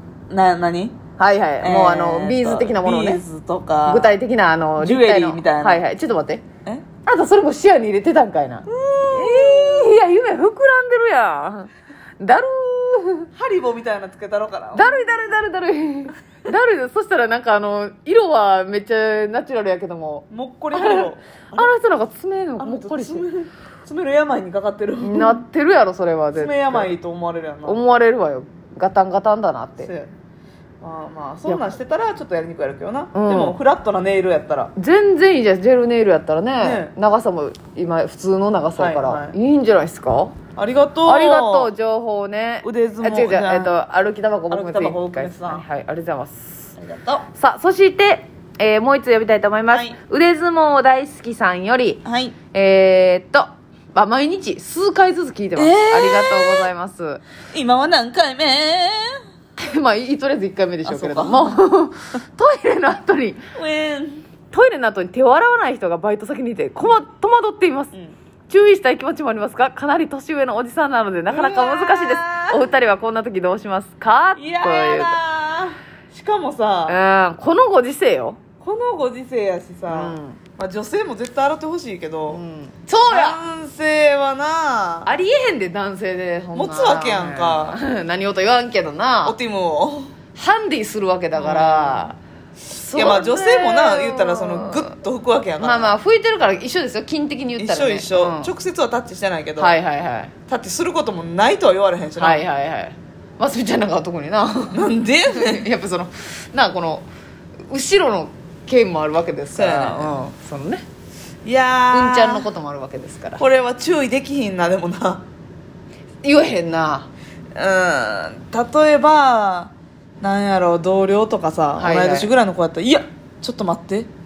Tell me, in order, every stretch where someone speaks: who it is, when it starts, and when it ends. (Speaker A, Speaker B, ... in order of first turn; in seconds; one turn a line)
Speaker A: 0.3-1.0
Speaker B: 1.2-3.2
Speaker A: 1.6-4.2
Speaker B: 3.9-6.4
Speaker A: 4.8-5.8
Speaker B: 7.0-13.3
Speaker A: 8.7-9.9
Speaker A: 13.3-15.4
Speaker B: 14.7-23.2
Speaker A: 20.3-21.8
Speaker A: 22.6-25.4
Speaker B: 25.0-26.9
Speaker A: 26.3-27.8
Speaker B: 27.6-29.9
Speaker A: 29.8-30.1
Speaker A: 30.8-34.7
Speaker B: 31.5-31.7
Speaker B: 33.1-33.6
Speaker B: 34.8-40.4
Speaker A: 36.6-36.9
Speaker A: 38.8-39.4
Speaker A: 40.5-41.7
Speaker B: 41.0-46.7
Speaker A: 42.6-43.7
Speaker A: 44.5-45.6
Speaker A: 46.8-47.3
Speaker B: 47.3-52.0
Speaker A: 49.7-50.0
Speaker A: 52.0-52.4
Speaker B: 52.5-57.2
Speaker A: 55.5-56.7
Speaker A: 57.5-59.2
Speaker B: 59.6-63.4
Speaker A: 60.8-61.6
Speaker A: 63.5-64.2
Speaker B: 64.5-67.9
Speaker B: 68.5-75.1
Speaker A: 71.3-72.7
Speaker A: 74.3-77.0
Speaker B: 76.9-78.4
Speaker A: 78.6-82.4
Speaker B: 79.9-80.4
Speaker B: 82.3-83.4
Speaker A: 83.1-85.1
Speaker B: 85.0-89.3
Speaker A: 86.5-87.8
Speaker A: 89.2-90.1
Speaker B: 90.3-92.2
Speaker A: 91.3-92.1
Speaker B: 92.7-94.9
Speaker A: 92.8-96.0
Speaker B: 95.6-98.5
Speaker A: 97.6-99.7
Speaker B: 99.6-100.3
Speaker A: 100.5-102.4
Speaker B: 102.2-107.0
Speaker A: 104.7-105.7
Speaker B: 107.7-110.8
Speaker A: 109.5-110.2
Speaker A: 111.4-112.5
Speaker B: 111.9-113.4
Speaker A: 113.4-115.2
Speaker B: 116.2-117.1
Speaker A: 117.5-124.1
Speaker B: 121.8-122.3